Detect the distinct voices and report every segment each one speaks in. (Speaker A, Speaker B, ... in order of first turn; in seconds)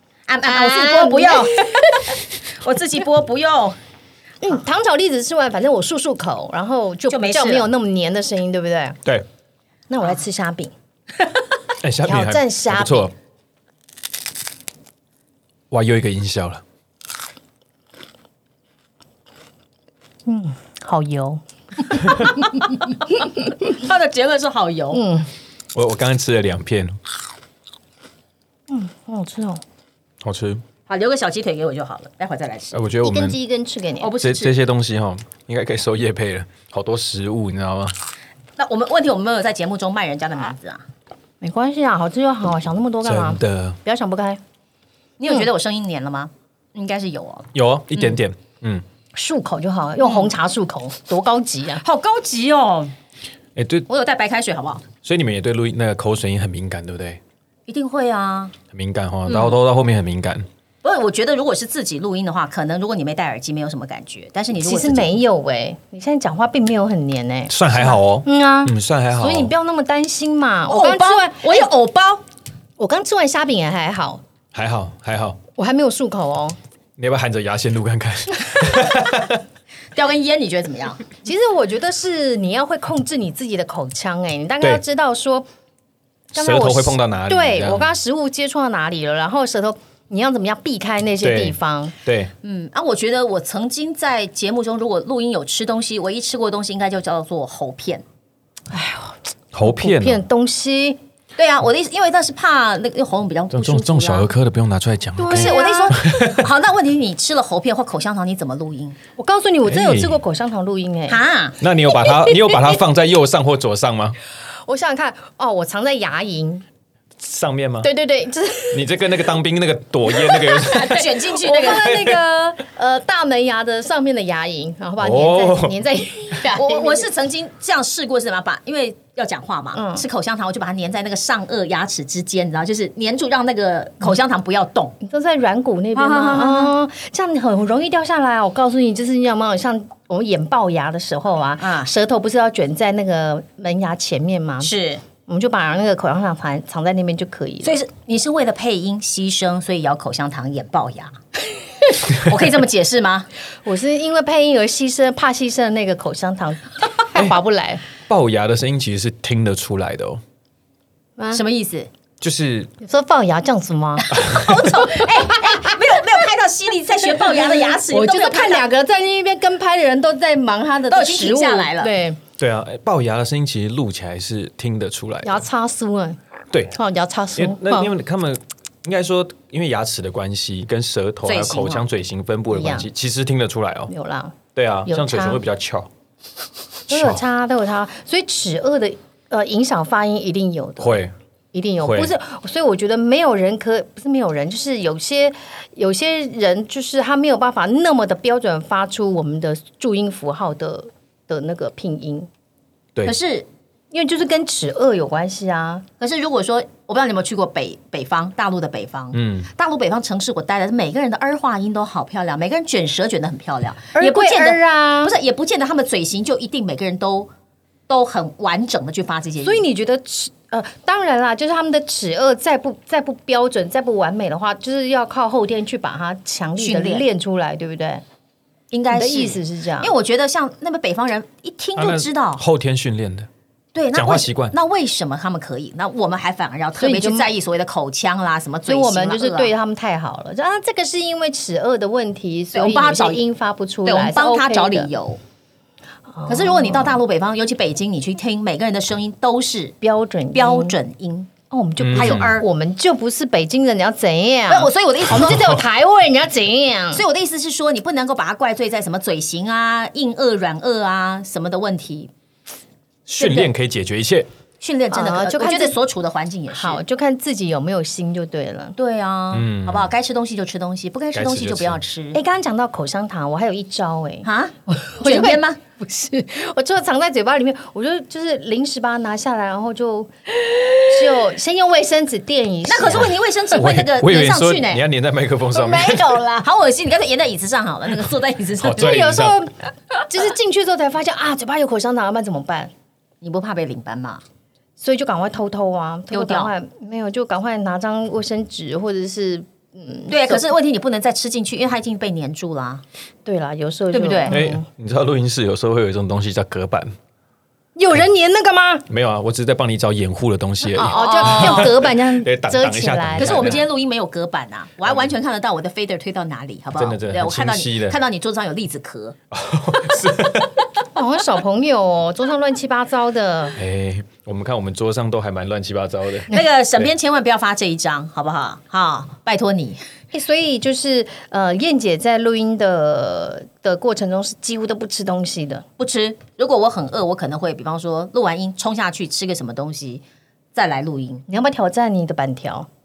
Speaker A: 0.3-3.8, 7.1-7.7, 22.1-25.0, 30.9-32.8, 34.0-34.5, 38.6-40.8, 45.2-48.1, 50.0-50.3, 51.8-52.9, 53.9-54.9, 57.7-58.5, 59.3-59.5, 60.8-65.2, 70.7-72.2, 79.9-81.0, 92.4-98.0, 101.4-104.3, 105.3-109.0, 111.1-111.6, 120.6-121.9, 126.4-134.9, 135.9-136.7, 141.6-141.9, 144.6-145.0, 147.6-151.2, 151.9-153.3, 161.3-161.9, 164.0-168.6, 170.9-171.9, 181.2-181.8, 203.0-203.5, 206.0-217.3, 217.9-219.6, 226.6-227.1, 228.7-232.4, 233.7-239.5, 242.5-243.2, 243.8-245.2, 246.2-249.7, 250.3-251.3, 251.9-252.4, 254.5-255.6, 256.9-262.1, 263.2-263.5, 264.6-266.8, 268.8-272.2, 274.2-275.6, 282.6-284.8, 286.3-289.0, 293.2-294.2, 296.1-296.5, 300.1-302.8, 303.9-304.4, 310.8-311.8, 313.2-319.1, 326.3-329.8, 335.8-340.0, 340.5-341.2
Speaker B: 0.4-2.2, 4.4-9.0, 9.9-10.7, 12.1-13.1, 20.2-22.7, 24.9-25.3, 28.7-29.6, 33.0-34.1, 41.4-44.4, 49.1-51.8, 64.6-71.7, 72.8-74.2, 75.5-76.6, 81.2-85.5, 86.3-91.9, 98.7-101.0, 105.2-106.0, 109.2-111.2, 114.7-116.6, 117.8-119.0, 120.1-127.1, 129.7-130.0, 135.0-144.7, 145.3-147.8, 153.6-157.8, 162.8-164.1, 164.6-165.8, 167.1-172.2, 175.2-176.2, 176.7-177.9, 182.5-182.9, 183.9-185.4, 186.9-191.0, 191.5-202.3, 203.9-205.8, 213.9-215.1, 219.4-228.0, 228.9-229.9, 236.8-237.3, 238.7-244.9, 246.1-247.0, 249.8-250.8, 251.5-257.0, 264.9-265.8, 266.5-268.7, 272.1-283.1, 285.5-286.4, 288.7-292.7, 294.8-300.4, 303.2-304.6, 307.8-308.9, 310.7-313.6, 320.9-323.6, 330.1-335.6, 341.3-342.7
Speaker C: 11.8-13.1, 15.7-16.6, 25.7-27.0, 30.2-30.6, 32.7-33.4, 34.2-37.9, 43.0-43.8, 47.5-48.8, 53.5-53.9, 55.0-57.2, 58.7-60.5, 67.5-69.5, 74.5-75.4, 77.0-79.4, 86.3-87.9, 91.2-92.3, 99.5-100.2, 103.5-106.5, 109.7-110.2, 111.6-114.2, 117.2-117.9, 118.7-122.2, 125.0-125.8, 158.1-160.2, 162.2-162.7, 164.2-164.5, 172.4-175.4, 176.5-176.8, 177.3-183.9, 184.5-185.9, 186.9-187.2, 190.8-191.1, 191.8-192.1, 209.1-209.5, 231.8-233.3, 233.9-234.5, 251.8-252.3, 263.1-264.3, 269.3-269.9, 271.1-271.8, 282.9-286.2, 288.6-289.4, 304.3-306.9, 308.9-313.6, 316.8-318.0, 319.3-320.7, 323.5-326.9